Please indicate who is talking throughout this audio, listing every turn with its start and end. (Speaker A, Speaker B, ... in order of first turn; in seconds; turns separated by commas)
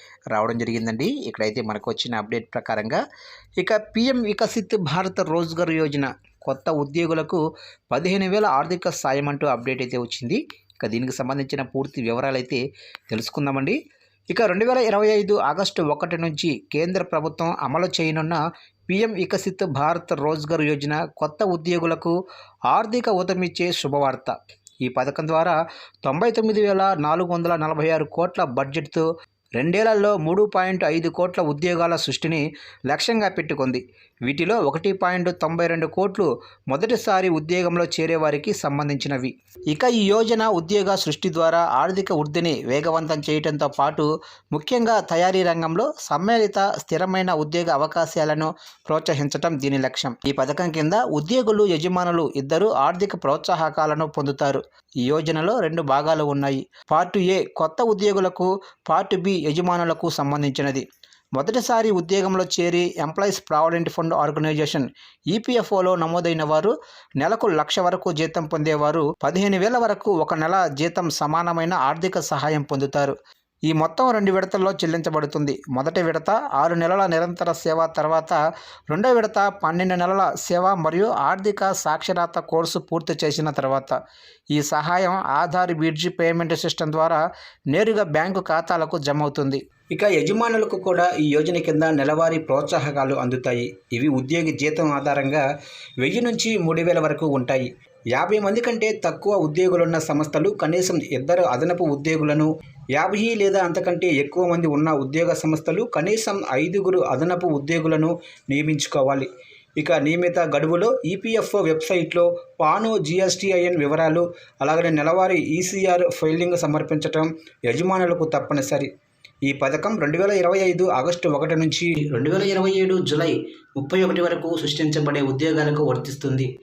Speaker A: 0.3-3.0, Speaker A: 3.6-13.8, Speaker A: 14.3-22.1, Speaker A: 22.7-29.1, Speaker A: 29.6-60.8, Speaker A: 61.4-73.1, Speaker A: 73.7-78.4, Speaker A: 78.9-83.9, Speaker A: 84.5-95.4, Speaker A: 96.0-118.9, Speaker A: 119.5-126.5